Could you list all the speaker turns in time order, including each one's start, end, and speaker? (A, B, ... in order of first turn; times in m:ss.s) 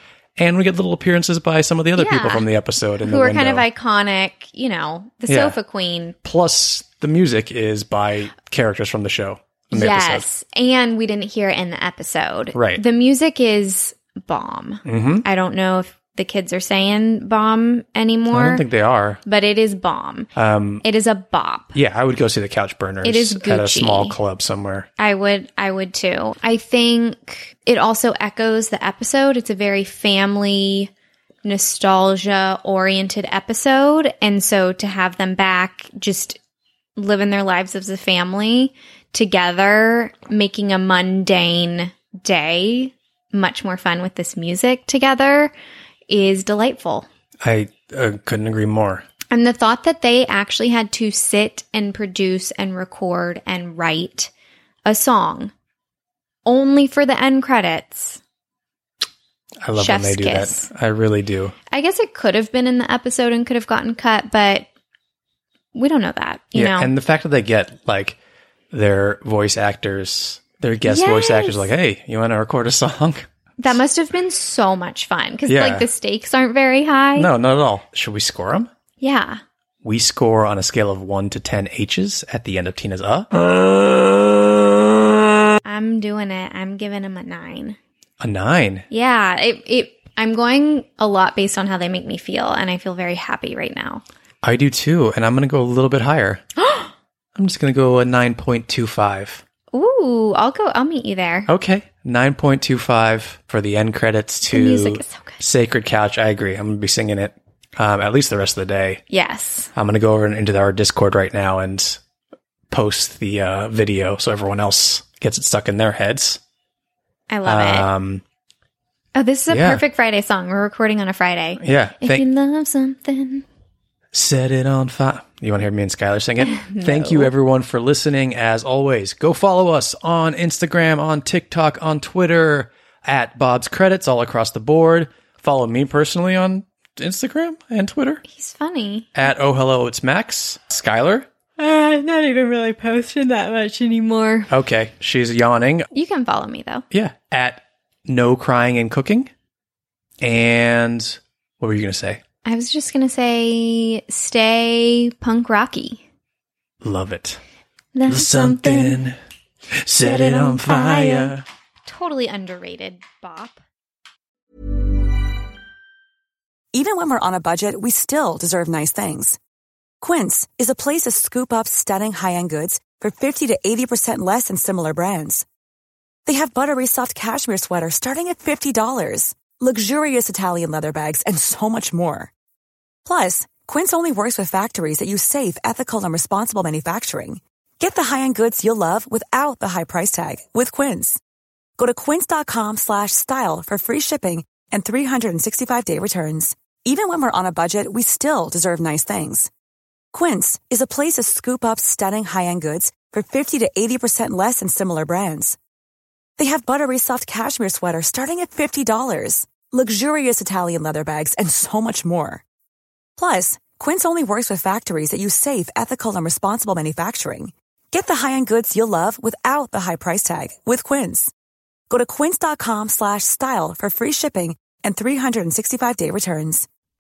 0:00.4-0:03.6 A
0:02.0-0:02.5 B
0:03.0-0:06.2 B
0:05.3-0:05.6 A
0:06.2-0:10.2 A
0:09.7-0:18.6 B
0:12.6-0:12.8 A
0:14.9-0:15.2 A
0:18.3-0:19.2 A
0:19.2-0:20.3 B
0:20.4-0:20.8 A
0:20.8-0:21.8 B
0:21.8-0:24.9 A
0:23.0-0:24.2 B
0:25.0-0:30.9 B
0:31.4-0:36.4 B
0:37.0-0:45.5 B
0:46.1-0:47.1 B
0:47.4-0:49.0 A
0:49.3-0:54.3 B
0:54.9-0:55.5 B
0:56.5-0:58.2 B
0:59.6-1:01.6 A
0:59.8-1:00.7 B
1:01.7-1:04.7 B
1:05.8-1:06.9 B
1:06.6-1:08.2 A
1:08.7-1:13.3 A
1:10.9-1:11.6 B
1:13.6-1:17.3 B
1:15.5-1:15.9 A
1:17.2-1:18.7 A
1:19.0-1:19.4 B
1:19.8-1:23.3 A
1:25.6-1:27.8 B
1:28.2-1:28.9 A
1:28.9-1:34.0 B
1:34.4-1:36.4 A
1:36.6-1:36.9 B
1:37.4-1:39.4 A
1:39.7-1:41.5 B
1:41.5-1:49.0 A
1:44.5-1:45.4 B
1:49.1-1:49.7 B
1:49.8-1:52.0 A
1:52.7-1:56.4 A
1:57.3-1:57.9 B
1:57.4-1:58.2 A
1:59.2-2:03.4 B
1:59.5-1:59.8 A
2:01.6-2:02.2 A
2:04.1-2:18.2 A
2:06.4-2:07.3 B
2:18.3-2:19.1 B
2:19.2-2:21.3 A
2:21.6-2:24.5 B
2:24.5-2:25.9 A
2:25.9-2:26.8 B
2:26.9-2:29.3 A
2:30.2-2:32.2 A
2:32.4-2:36.0 B
2:36.8-2:37.4 A
2:38.0-2:39.0 B
2:38.1-2:39.2 A
2:39.8-2:41.4 A
2:40.0-2:41.3 B
2:41.9-2:43.6 B
2:46.7-2:49.4 C
2:50.0-2:55.5 C
2:56.3-3:02.3 C
3:03.0-3:11.2 C
3:11.8-3:19.5 C
3:20.1-3:25.6 C
3:26.4-3:32.4 C
3:33.2-3:41.3 C
3:41.9-3:46.7 C